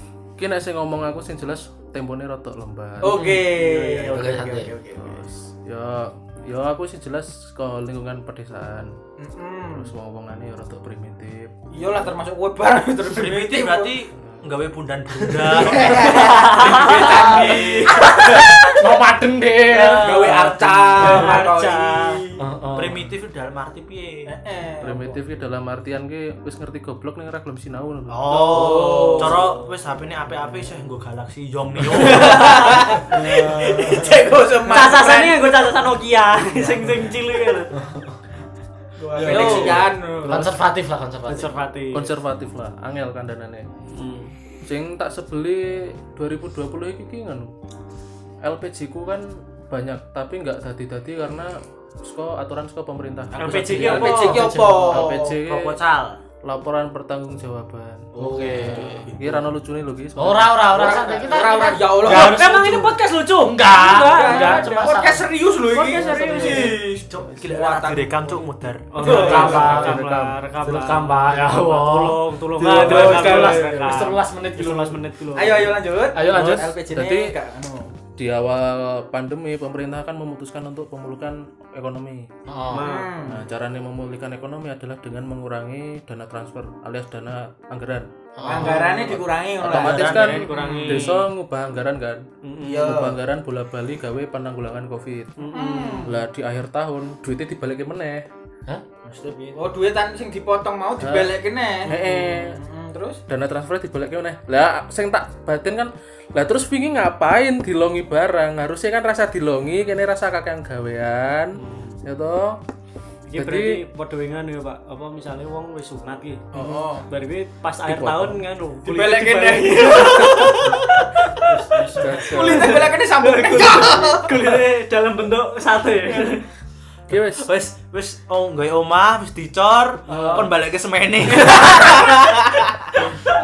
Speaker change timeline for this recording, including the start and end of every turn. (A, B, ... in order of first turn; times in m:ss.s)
0:00.4-0:03.3 A
0:03.0-0:05.2 B
0:03.1-0:04.7 C
0:04.9-0:08.9 A
0:09.2-0:09.9 B
0:09.7-0:12.1 A
0:11.7-0:14.0 B
0:13.1-0:16.8 D
0:14.2-0:14.4 A
0:15.4-0:18.6 B
0:16.1-0:18.0 E
0:16.1-0:20.4 C
0:19.7-0:22.2 E
0:19.9-0:22.4 B
0:21.0-0:21.4 C
0:22.4-0:23.0 C
0:22.7-0:24.3 D
0:24.3-0:25.2 B
0:24.8-0:28.5 A
0:28.1-0:33.0 D
0:28.3-0:29.5 B
0:28.6-0:29.2 C
0:31.9-0:35.7 B
0:33.1-0:34.2 C
0:34.6-0:37.7 E
0:37.7-0:38.1 C
0:39.0-0:40.5 B
0:39.2-0:39.7 C
0:39.2-0:39.9 D
0:39.2-0:40.4 E
0:40.2-0:41.6 C
0:41.3-0:42.1 E
0:41.9-0:43.7 A
0:43.9-0:44.3 E
0:44.6-0:47.5 A
0:48.4-0:55.8 A
0:53.3-0:55.4 B
0:53.4-0:54.5 E
0:54.1-0:55.0 C
0:55.4-0:56.2 D
0:56.4-1:00.7 A
0:58.2-0:58.8 B
0:58.2-0:59.1 C
0:58.4-0:59.4 D
1:00.2-1:02.7 C
1:00.7-1:02.9 B
1:01.9-1:04.9 E
1:03.4-1:05.3 C
1:03.9-1:08.5 B
1:05.7-1:06.8 E
1:06.4-1:09.5 D
1:08.9-1:15.8 E
1:09.0-1:09.8 B
1:09.0-1:15.0 C
1:09.2-1:10.4 A
1:12.6-1:14.1 B
1:15.3-1:17.9 B
1:16.1-1:16.8 C
1:16.9-1:17.4 A
1:18.2-1:22.3 A
1:22.5-1:22.8 C
1:22.7-1:23.1 E
1:22.8-1:23.4 B
1:23.2-1:32.2 A
1:28.4-1:29.0 C
1:28.4-1:31.2 B
1:29.6-1:30.4 D
1:30.0-1:31.2 E
1:32.4-1:33.0 E
1:32.6-1:33.2 B
1:32.8-1:38.2 A
1:35.4-1:36.1 E
1:35.5-1:36.2 B
1:39.0-1:39.6 D
1:39.5-1:43.2 B
1:41.0-1:42.6 A
1:43.3-1:52.6 A
1:51.6-1:52.0 E
1:53.3-1:56.5 E
1:53.3-1:53.8 A
1:56.5-1:56.8 A
1:56.5-1:57.0 B
1:57.1-2:00.8 E
1:57.8-1:58.4 A
1:58.8-2:04.3 B
2:00.4-2:00.7 A
2:01.4-2:06.4 E
2:01.9-2:02.9 A
2:07.1-2:07.5 A
2:07.4-2:13.0 D
2:10.1-2:10.4 C
2:11.4-2:11.7 E